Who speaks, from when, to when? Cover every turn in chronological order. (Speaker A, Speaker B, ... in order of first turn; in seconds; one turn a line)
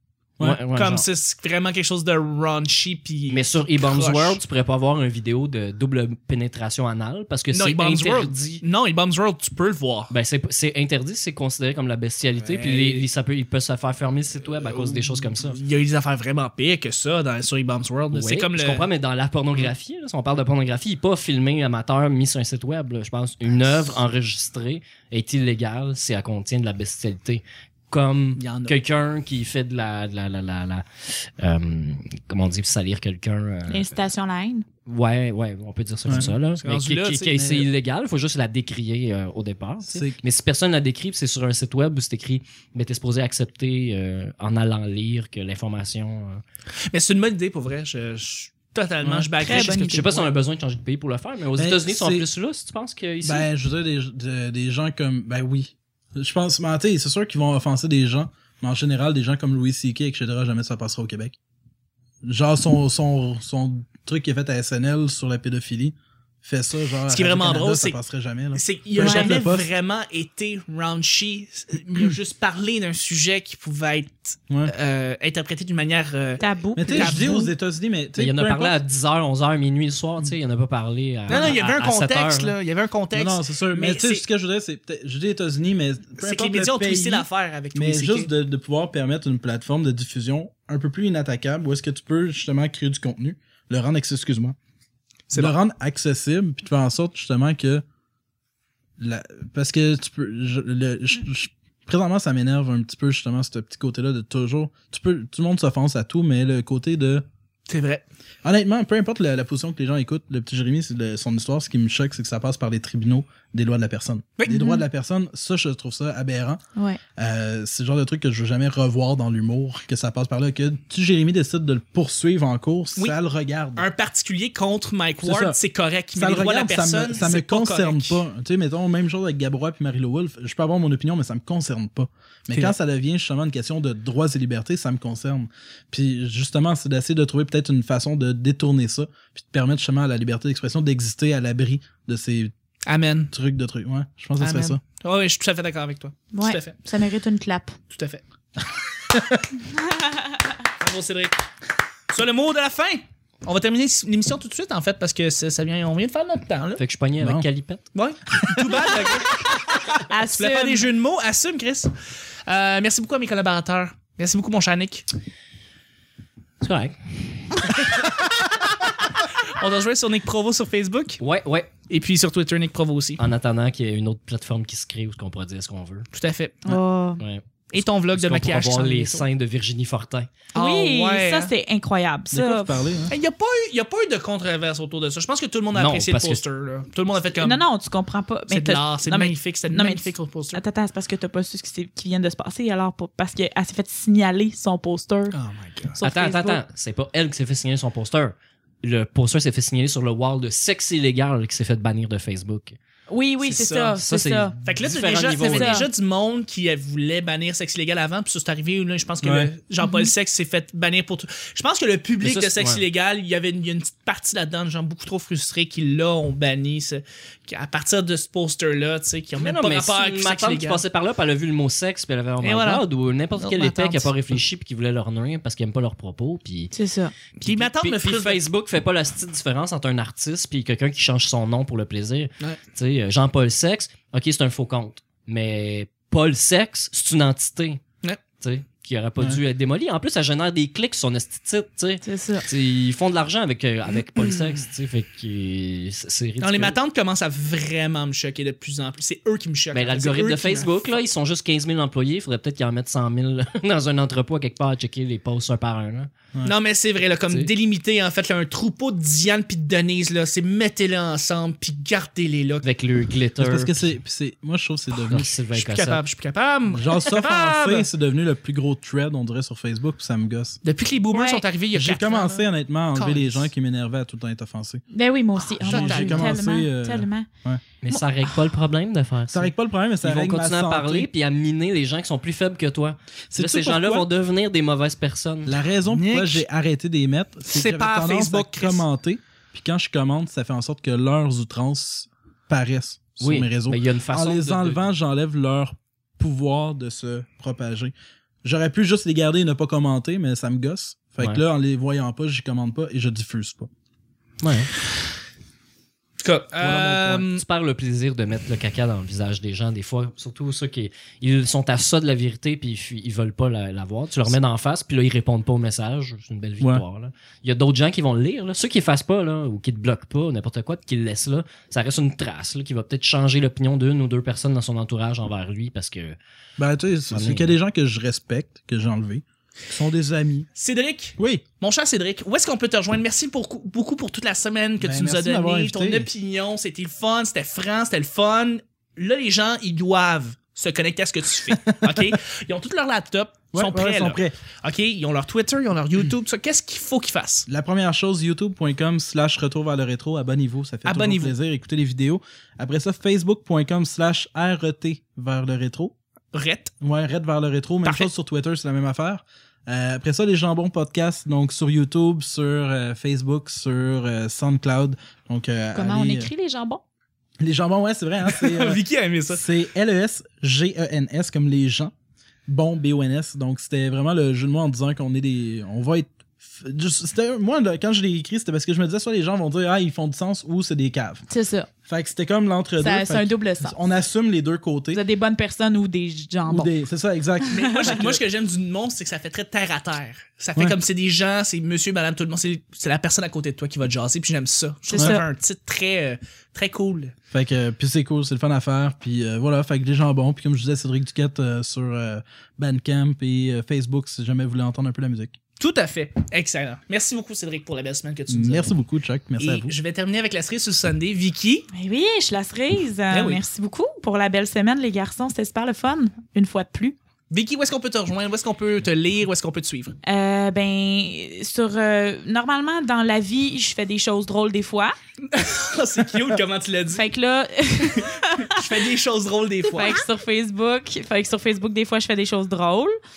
Speaker A: 0.4-1.1
Speaker B: 0.7-4.4
Speaker A: 3.3-8.6
Speaker B: 7.5-10.1
Speaker A: 10.1-15.6
Speaker B: 12.4-13.1
Speaker B: 14.8-18.9
Speaker A: 18.1-34.0
Speaker B: 28.4-28.8
Speaker C: 33.7-34.7
Speaker A: 34.9-46.4
Speaker D: 36.1-36.3
Speaker B: 36.6-37.5
Speaker D: 37.4-37.7
Speaker D: 39.8-40.2
Speaker B: 46.9-50.3
Speaker D: 49.0-49.3
Speaker C: 49.4-50.3
Speaker A: 49.5-53.5
Speaker D: 51.6-52.3
Speaker D: 53.2-61.4
Speaker D: 62.2-69.7
Speaker B: 67.1-68.0
Speaker B: 68.5-77.4
Speaker C: 69.0-69.3
Speaker C: 76.4-77.5
Speaker D: 76.8-78.8
Speaker A: 78.2-82.5
Speaker B: 81.3-84.2
Speaker D: 83.1-94.6
Speaker B: 86.2-88.3
Speaker D: 95.3-97.8
Speaker D: 99.0-107.3
Speaker B: 107.7-108.0
Speaker D: 108.4-116.6
Speaker B: 114.4-114.6
Speaker C: 114.5-114.8
Speaker D: 117.2-123.9
Speaker B: 123.8-128.2
Speaker D: 125.2-125.6
Speaker D: 126.2-142.5
Speaker B: 142.9-143.3
Speaker D: 143.3-144.8
Speaker B: 144.4-146.8
Speaker C: 146.3-147.8
Speaker B: 147.9-148.2
Speaker D: 149.1-149.5
Speaker B: 150.8-151.4
Speaker B: 152.1-156.8
Speaker A: 156.8-157.8
Speaker D: 157.2-157.5
Speaker B: 157.9-159.6
Speaker D: 158.4-158.8
Speaker C: 160.0-160.9
Speaker B: 160.3-161.9
Speaker B: 162.5-165.1
Speaker A: 166.6-167.9
Speaker B: 169.4-171.2
Speaker A: 171.2-171.7
Speaker B: 171.9-173.2
Speaker A: 173.2-176.1
Speaker B: 176.1-176.6
Speaker C: 176.7-177.2
Speaker A: 177.2-180.3
Speaker B: 177.7-179.3
Speaker B: 180.5-181.5
Speaker C: 180.6-182.8
Speaker D: 182.3-183.1
Speaker B: 183.1-187.7
Speaker A: 185.7-186.4
Speaker C: 187.4-195.3
Speaker B: 188.5-190.6
Speaker B: 195.3-196.0
Speaker C: 195.9-196.6
Speaker A: 196.0-202.8
Speaker C: 203.1-204.6
Speaker B: 203.4-204.0
Speaker A: 204.0-205.8
Speaker B: 204.7-220.8
Speaker C: 205.4-205.9
Speaker D: 209.2-209.5
Speaker C: 209.8-210.1
Speaker A: 212.2-212.8
Speaker A: 219.4-226.7
Speaker B: 222.4-222.8
Speaker B: 223.4-224.1
Speaker C: 226.7-227.1
Speaker A: 227.4-237.8
Speaker B: 227.4-228.4
Speaker A: 238.4-246.8
Speaker C: 242.0-242.5
Speaker B: 246.4-250.7
Speaker A: 249.7-256.1
Speaker B: 256.4-262.6
Speaker A: 262.6-263.9
Speaker D: 263.4-265.3
Speaker A: 265.1-266.0
Speaker B: 265.5-267.9
Speaker D: 266.7-270.6
Speaker B: 270.6-272.4
Speaker C: 271.1-271.4
Speaker D: 271.7-274.8
Speaker C: 272.9-273.4
Speaker C: 274.9-277.3
Speaker B: 275.6-276.3
Speaker D: 275.6-277.6
Speaker A: 277.8-285.6
Speaker D: 279.3-281.1
Speaker D: 283.3-284.1
Speaker D: 285.5-297.9
Speaker B: 285.9-286.4
Speaker B: 287.5-288.8
Speaker A: 293.2-294.9
Speaker D: 298.4-303.7
Speaker A: 304.4-304.7
Speaker B: 306.2-307.4
Speaker A: 306.6-326.2
Speaker D: 326.6-330.5
Speaker A: 327.1-327.5
Speaker B: 330.6-347.5
Speaker D: 331.2-331.4
Speaker D: 334.8-336.1
Speaker D: 341.7-342.1
Speaker D: 343.5-344.3
Speaker D: 347.5-355.9
Speaker B: 350.9-351.3
Speaker B: 356.3-356.7
Speaker D: 356.8-366.3
Speaker B: 357.9-358.1
Speaker C: 365.8-366.8
Speaker D: 367.4-371.9
Speaker B: 368.3-369.4
Speaker D: 372.5-381.2
Speaker C: 381.3-381.7
Speaker D: 381.9-385.0
Speaker C: 382.8-383.8
Speaker C: 384.9-386.7
Speaker D: 386.5-388.2
Speaker C: 387.4-388.0
Speaker B: 387.5-397.1
Speaker C: 394.9-395.2
Speaker D: 395.0-395.2
Speaker D: 397.3-405.4
Speaker B: 405.6-408.8
Speaker D: 408.3-409.7
Speaker B: 409.4-411.7
Speaker C: 411.7-417.0
Speaker B: 413.1-413.4
Speaker B: 417.3-420.0
Speaker C: 420.0-425.0
Speaker B: 425.3-427.1
Speaker C: 426.9-428.7
Speaker B: 427.9-430.0
Speaker C: 429.8-433.0